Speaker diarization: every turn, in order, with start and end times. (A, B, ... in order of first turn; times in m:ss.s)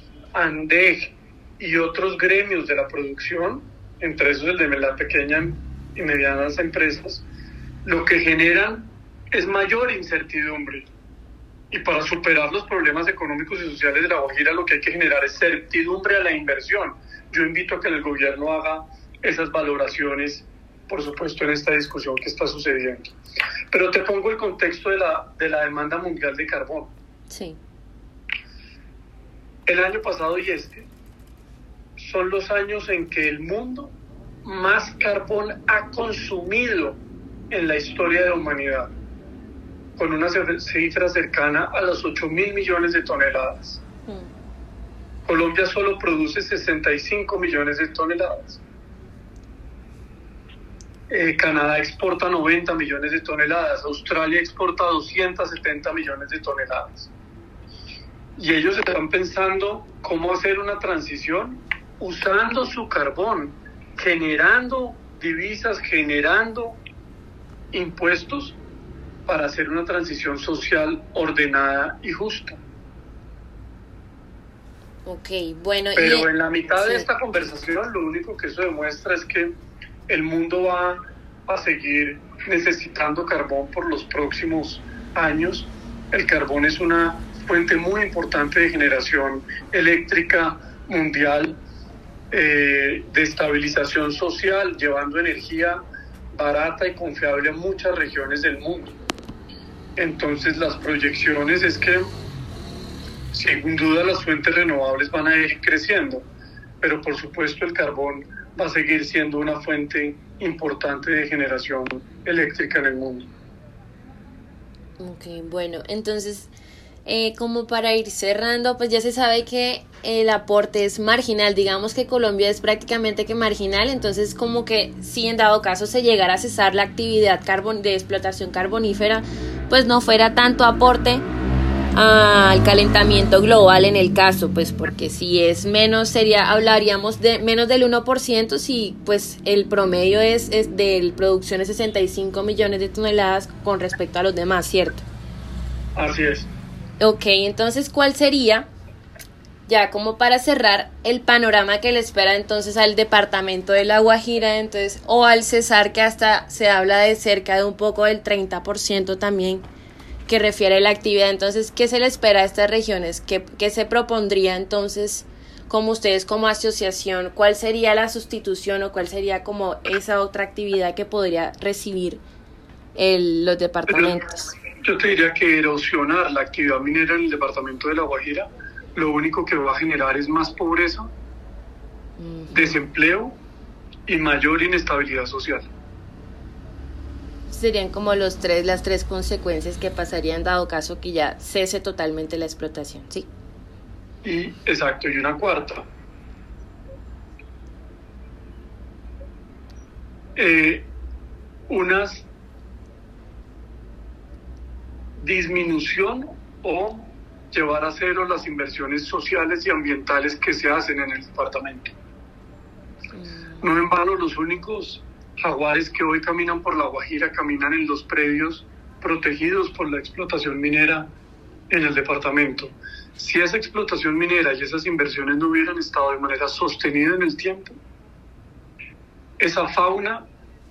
0:00.3-0:07.2 A
0:07.8-0:10.9 A
0:11.7-0:23.2 A
0:23.7-0:26.9 A
0:27.3-0:27.6 B
0:29.7-0:30.9 A
0:32.0-0:38.9 A
0:40.0-0:43.8 A
0:45.2-0:48.6 A
0:51.1-0:57.1 A
0:58.4-1:06.8 A
1:07.7-1:08.6 A
1:09.3-1:12.6 A
1:15.0-1:17.1 B
1:16.0-1:19.6 A
1:20.1-1:31.6 A
1:32.3-1:35.8 A
1:36.3-1:39.0 A
1:40.0-1:42.1 A
1:43.3-1:46.3 A
1:46.8-1:53.3 A
1:55.0-1:56.5 B
1:57.0-2:11.3 B
2:11.9-2:25.0 B
2:26.0-2:26.5 A
2:27.0-2:28.7 B
2:29.7-2:39.6 B
2:40.3-2:52.2 B
2:52.9-2:54.5 B
2:53.9-2:54.2 A
2:54.8-3:01.1 A
3:02.2-3:02.8 B
3:02.5-3:03.4 A
3:04.1-3:05.7 A
3:07.5-3:13.3 B
3:14.2-3:15.8 A
3:20.4-3:20.9 A
3:21.7-3:22.3 A
3:25.2-3:31.9 A
3:33.1-3:33.6 B
3:33.6-3:41.1 A
3:41.7-3:47.8 A
3:49.4-3:50.2 A